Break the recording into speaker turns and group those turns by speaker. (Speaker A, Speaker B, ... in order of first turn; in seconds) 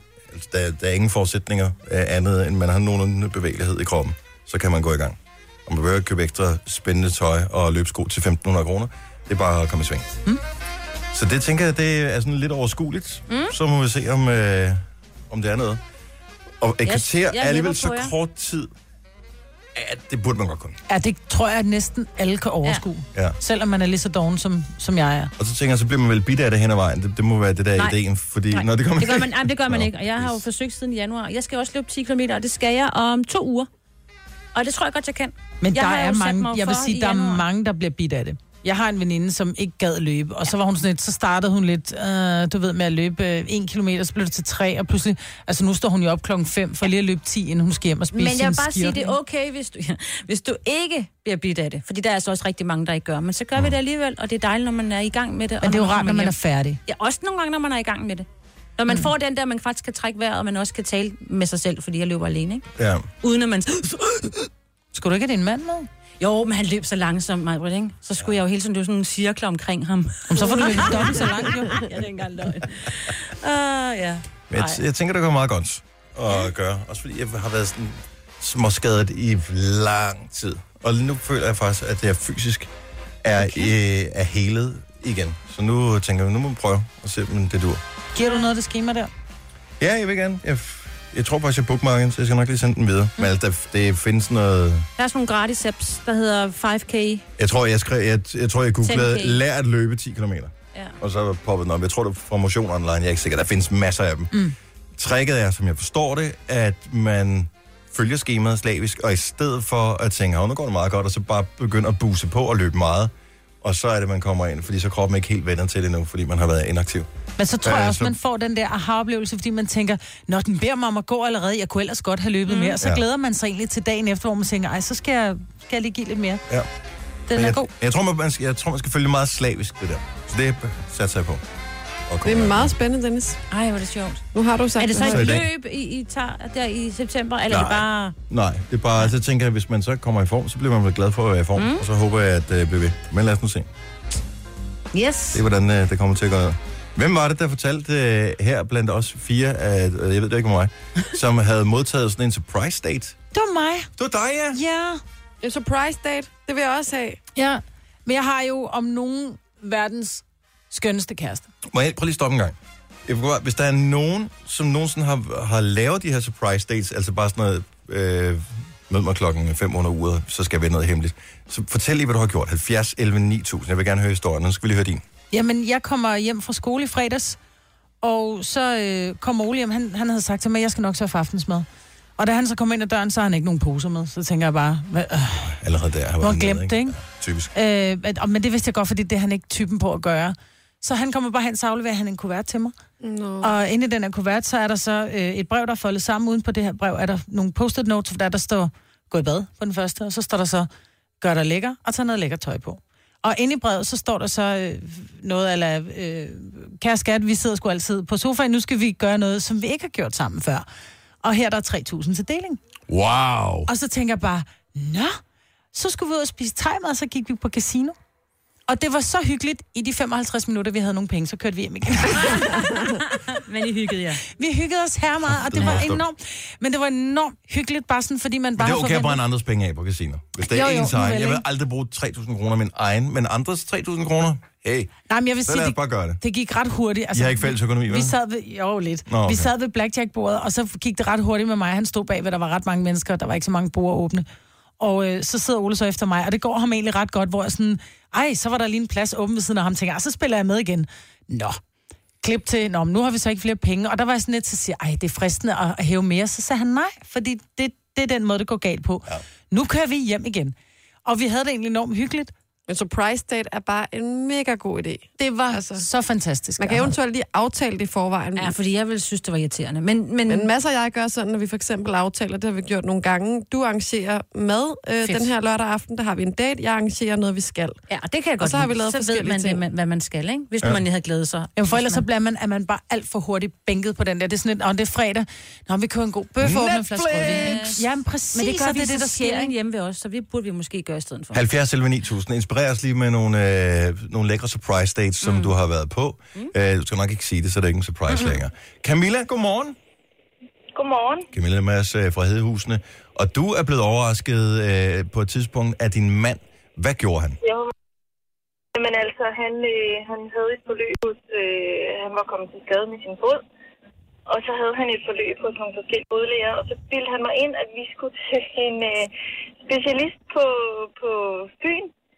Speaker A: 0.3-10.1, 11.1-15.8, 16.6-18.7, 19.7-20.8, 25.4-30.4, 62.8-63.0, 74.5-82.7, 83.2-87.8, 89.8-94.9, 97.4-104.3, 105.0-117.1, 117.6-118.1, 127.3-131.4, 132.1-132.7, 135.0-135.4, 137.5-143.7, 145.3-153.2, 154.0-154.6, 161.7-162.6, 163.1-175.0, 185.5-187.5, 212.9-213.7, 225.2-226.0, 228.6-236.2, 237.1-238.2, 239.1-239.5, 291.3-299.8, 301.3-307.4
Speaker B: 13.3-13.5, 16.8-18.1, 28.5-33.7, 34.5-37.4, 48.1-58.3, 58.8-62.7, 63.2-64.3, 66.2-74.8, 95.0-97.2, 98.8-99.4, 122.5-122.8, 127.3-127.6, 133.5-134.2, 134.8-138.1, 141.6-141.8, 144.9-145.4, 223.0-224.2, 268.4-270.5, 277.9-282.0, 287.2-287.8, 288.3-291.4, 295.2-295.5, 298.1-298.4
Speaker C: 20.9-25.3, 35.6-49.1, 55.6-56.8, 64.9-65.9, 70.3-71.9, 88.1-89.1, 117.4-126.4, 127.4-127.7, 153.3-153.9, 154.5-155.0, 157.3-161.5, 175.3-177.4, 178.0-181.7, 182.2-185.5, 186.2-187.0, 187.5-192.7, 193.4-200.7, 201.2-210.7, 211.2-212.6, 213.7-215.2, 215.7-217.9, 218.7-222.9, 224.3-229.2, 230.5-231.4, 235.1-244.2, 244.8-251.6, 252.2-262.3, 265.2-266.9, 281.6-289.5
Speaker D: 132.2-133.4, 134.3-135.4, 155.4-157.2, 193.0-193.5, 262.7-265.8, 266.6-268.5, 270.3-277.8, 278.4-279.6, 286.4-287.7
Speaker E: 300.7-301.3, 307.4-307.7, 308.7-313.4, 314.3-321.9